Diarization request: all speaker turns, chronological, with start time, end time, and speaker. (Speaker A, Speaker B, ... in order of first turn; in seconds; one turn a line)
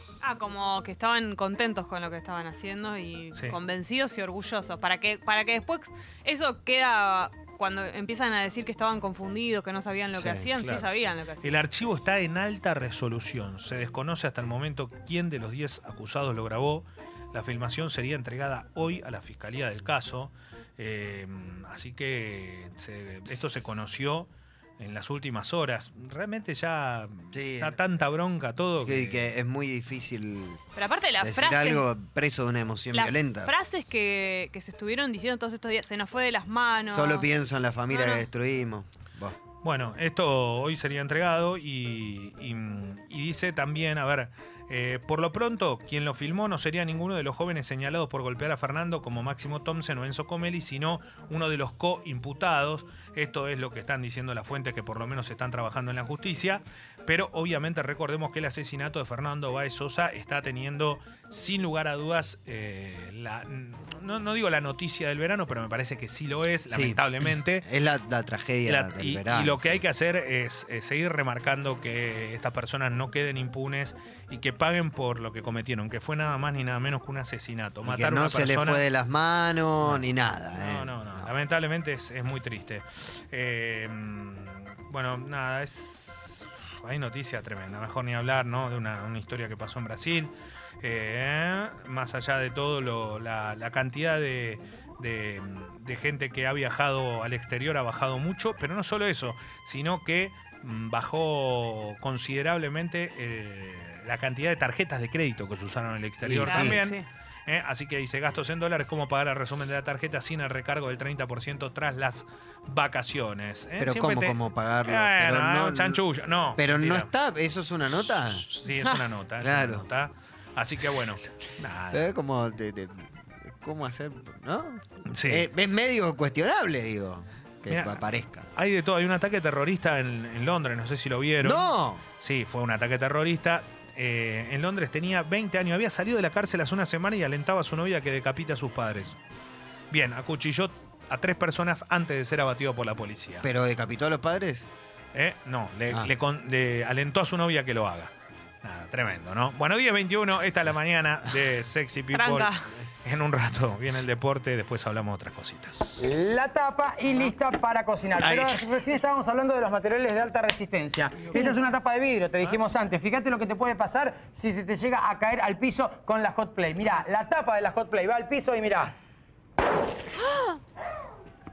Speaker A: 0.2-11.6
Speaker B: 10.2-10.5
Speaker C: 10.6-10.8
Speaker C: 11.4-29.3
Speaker B: 27.3-27.8
Speaker B: 28.8-30.6
Speaker A: 30.8-31.9
Speaker B: 31.2-33.5
Speaker A: 32.9-37.3
Speaker B: 36.9-39.4
Speaker A: 37.9-38.2
Speaker C: 39.6-67.7
Speaker B: 66.7-69.8
Speaker C: 68.7-78.8
Speaker B: 77.8-81.3
Speaker C: 80.5-117.1
Speaker B: 106.2-106.8
Speaker A: 106.5-107.0
Speaker B: 113.8-116.0
Speaker B: 116.5-118.5
Speaker C: 118.0-122.1
Speaker B: 119.4-119.9
Speaker B: 121.9-128.5
Speaker C: 125.1-125.5
Speaker C: 127.7-128.0
Speaker C: 128.5-139.2
Speaker B: 131.4-132.0
Speaker C: 139.9-143.5
Speaker B: 143.4-144.7
Speaker C: 145.1-148.1
Speaker C: 148.6-152.5
Speaker A: 152.1-152.6
Speaker C: 153.0-156.1
Speaker D: 156.0-168.9
Speaker B: 158.2-158.6